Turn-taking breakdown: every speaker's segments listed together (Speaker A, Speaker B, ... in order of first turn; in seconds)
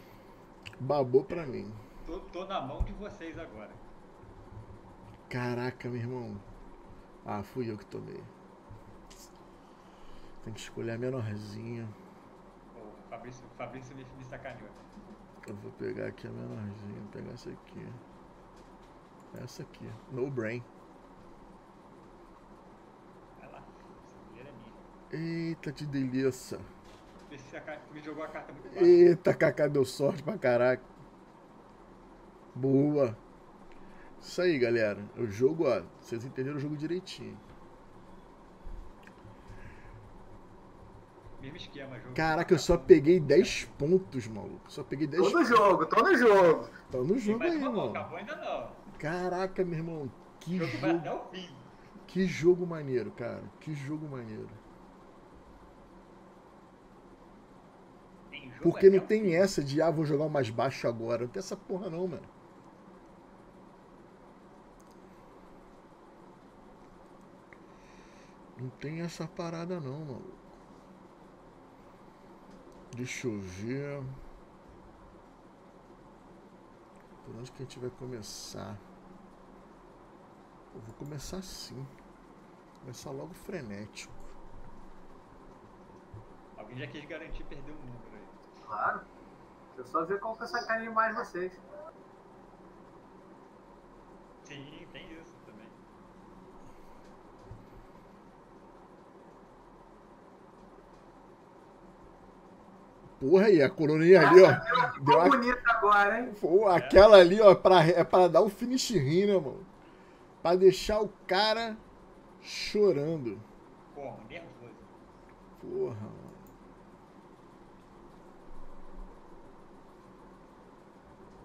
Speaker A: 0.8-1.8, 5.3-6.4, 7.2-8.3, 10.4-11.9, 15.5-18.0, 19.3-20.7, 25.1-26.7, 28.7-30.9, 32.5-33.2, 34.2-37.4, 42.1-45.6, 46.9-48.1, 49.0-51.1, 52.1-54.6, 58.6-62.3, 68.6-70.5, 72.9-74.2, 77.2-78.8, 80.7-81.9, 82.8-84.4, 103.2-105.4, 106.3-109.7, 110.4-111.8, 112.4-113.5, 115.6-116.4
Speaker B: 1.3-3.8, 12.7-14.9, 23.4-24.8, 27.3-29.1, 41.4-43.7, 47.2-48.8, 50.5-51.7, 58.3-59.5, 86.6-88.4, 94.4-95.8, 106.7-107.0, 113.9-115.0
Speaker C: 45.2-46.8, 88.7-89.0, 89.8-91.6, 104.2-106.3